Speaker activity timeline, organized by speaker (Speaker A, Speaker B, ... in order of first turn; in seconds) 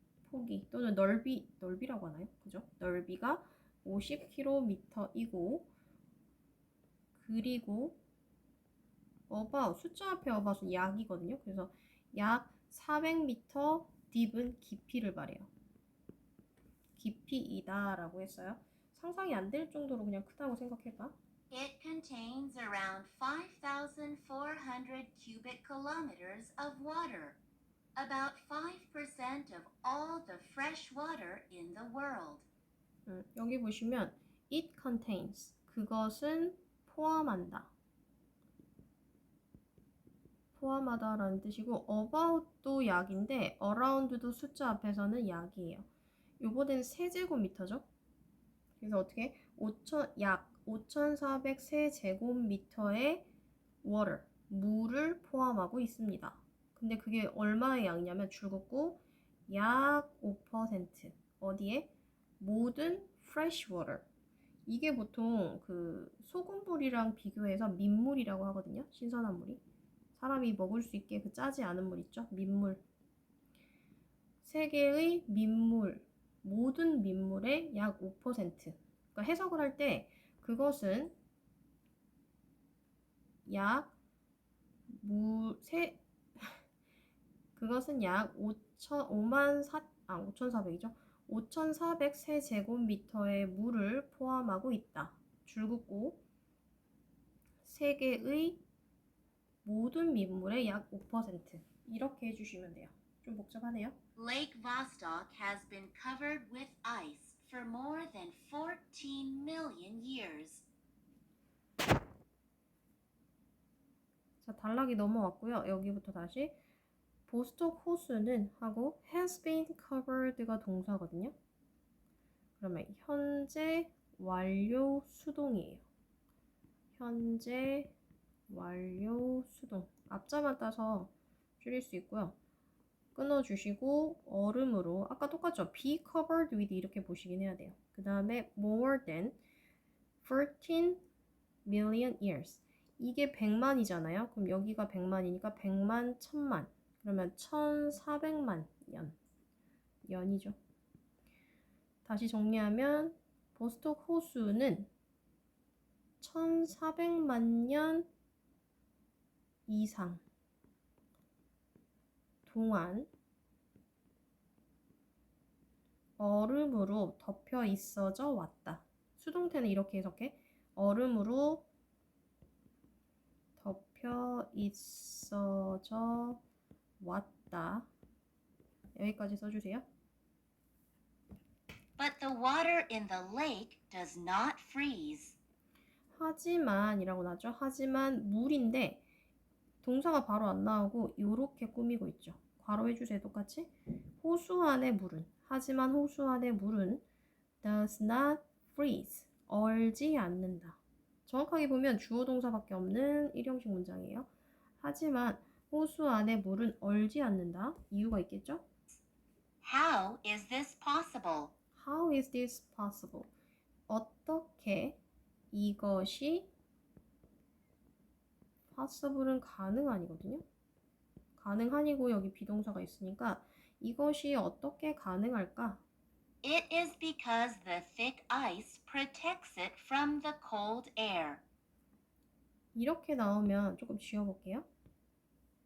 Speaker A: 0.2-5.7, 7.1-8.0, 9.3-15.5, 17.0-21.1, 33.0-37.7, 40.5-45.9, 46.4-47.9, 48.8-53.3, 53.8-64.0, 64.7-69.6, 70.2-72.8, 74.4-81.1, 83.5-83.9, 84.9-86.6, 87.5-96.2, 97.6-98.6, 99.6-104.0, 114.4-116.6, 117.3-121.3, 122.6-125.8, 127.0-127.9, 128.5-132.3, 133.1-139.4, 140.2-141.0, 141.6-149.2, 150.1-150.6, 152.0-154.9, 156.2-158.1, 159.7-160.2, 162.4-163.1, 166.2-171.7, 173.6-176.4, 177.0-177.9, 178.9-179.8, 186.1-189.0, 189.8-197.0, 197.6-204.3, 204.8-208.6, 211.8-213.3, 213.9-215.0, 215.5-216.5, 218.7-220.4, 221.4-225.8, 232.7-234.7
Speaker B: 21.5-27.4, 27.9-32.5, 104.2-110.6, 182.0-185.4, 209.6-211.5, 226.4-231.4